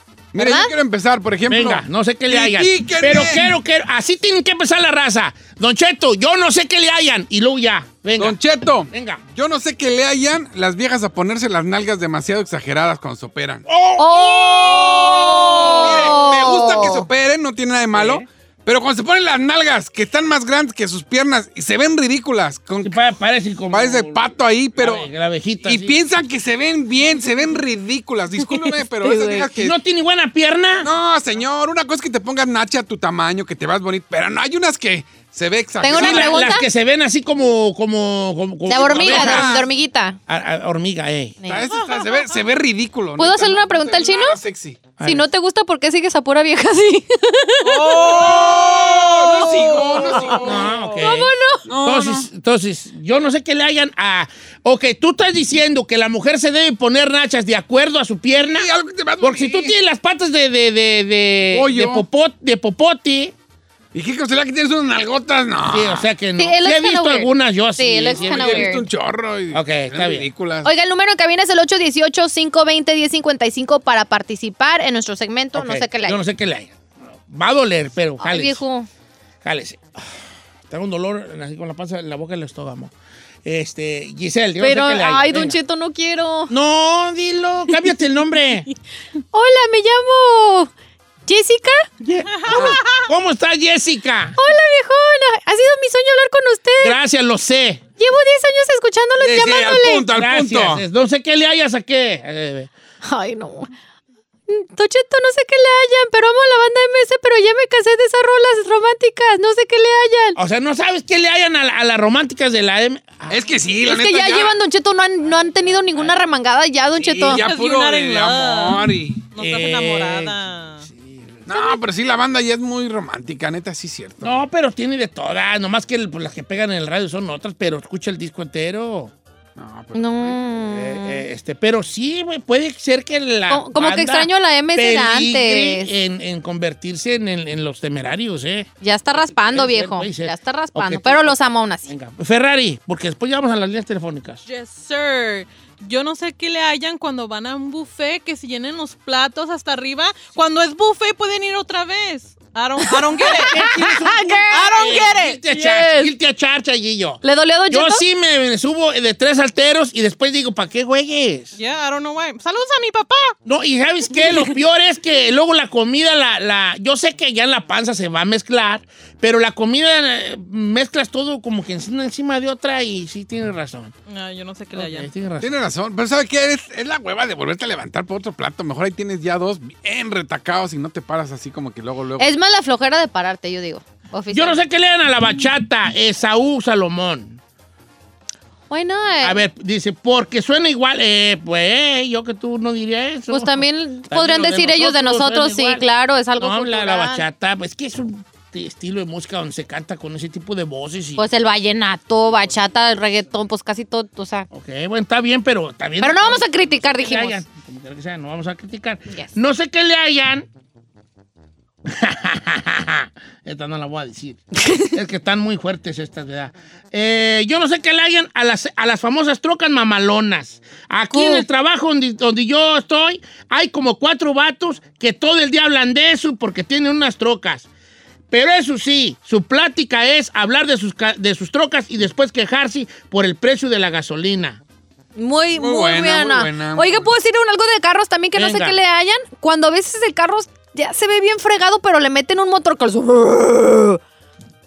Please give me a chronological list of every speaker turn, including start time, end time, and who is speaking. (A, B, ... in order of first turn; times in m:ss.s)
0:00.3-0:03.5 A
0:00.4-0:00.7 B
0:01.5-0:09.2 C
0:08.2-0:13.6 A
0:13.7-0:16.3 C
0:14.0-0:17.0 B
0:15.0-0:23.0 A
0:17.9-0:18.2 C
0:22.8-0:26.0 C
0:23.7-0:25.1 A
0:25.6-0:29.8 A
0:29.0-0:29.4 B
0:29.5-0:30.9 C
0:30.8-0:36.6 A
0:35.8-0:36.7 B
0:35.8-0:39.6 C
0:38.7-0:40.2 B
0:38.7-0:39.6 A
0:40.3-0:41.4 C
0:41.4-0:44.9 A
0:43.2-0:44.4 B
0:45.0-0:45.2 C
0:45.0-0:48.5 B
0:47.7-0:51.0 D
0:48.0-0:50.7 A
0:49.2-0:50.3 B
0:50.3-0:58.7 C
0:51.0-0:51.6 B
0:51.6-0:52.3 A
0:58.4-0:59.7 A
0:59.2-1:03.3 C
1:01.5-1:02.0 A
1:03.9-1:06.1 A
1:05.7-1:08.8 C
1:06.4-1:08.8 B
1:08.1-1:10.7 A
1:09.5-1:10.3 C
1:10.6-1:16.2 B
1:15.5-1:18.6 C
1:18.2-1:18.9 B
1:19.4-1:20.1 C
1:20.7-1:22.9 C
1:23.4-1:25.6 C
1:24.6-1:26.5 B
1:26.5-1:28.7 C
1:29.3-1:30.7 B
1:31.3-1:31.9 B
1:32.0-1:34.4 C
1:32.4-1:32.9 D
1:32.5-1:32.8 A
1:34.4-1:37.0 B
1:36.8-1:37.8 C
1:38.0-1:40.0 B
1:39.2-1:40.8 A
1:40.1-1:42.7 C
1:43.0-1:43.7 B
1:44.5-1:50.4 B
1:50.3-1:53.5 C
1:53.3-1:54.6 A
1:53.8-1:57.4 B
1:55.6-1:56.2 C
1:57.0-1:59.2 A
1:57.3-2:00.9 D
1:59.4-2:01.5 C
2:01.5-2:04.4 A
2:04.2-2:09.1 C
2:09.6-2:10.4 A
2:09.9-2:11.2 B
2:10.7-2:18.7 C
2:13.5-2:15.9 B
2:18.8-2:21.9 B
2:19.2-2:24.4 C
2:24.4-2:33.6 D
2:32.8-2:36.1 B
2:33.4-2:41.6 C
2:34.5-2:35.4 D
2:37.2-2:38.0 B
2:41.6-2:43.3 D
2:43.4-2:53.9 C
2:54.1-2:55.1 D
2:54.7-2:55.5 C
2:55.4-3:02.3 A
3:02.2-3:04.6 B
3:04.3-3:07.4 C
3:08.7-3:09.4 B
3:09.2-3:15.8 C
3:13.3-3:17.2 B
3:16.4-3:21.2 C
3:21.2-3:24.5 B
3:24.5-3:30.5 C
3:26.0-3:27.4 B
3:31.8-3:47.7 C
3:34.6-3:34.9 B
3:41.1-3:41.4 B
3:48.3-3:54.6 C
3:55.2-4:04.0 B
3:55.5-3:57.1 A
3:58.3-3:58.8 C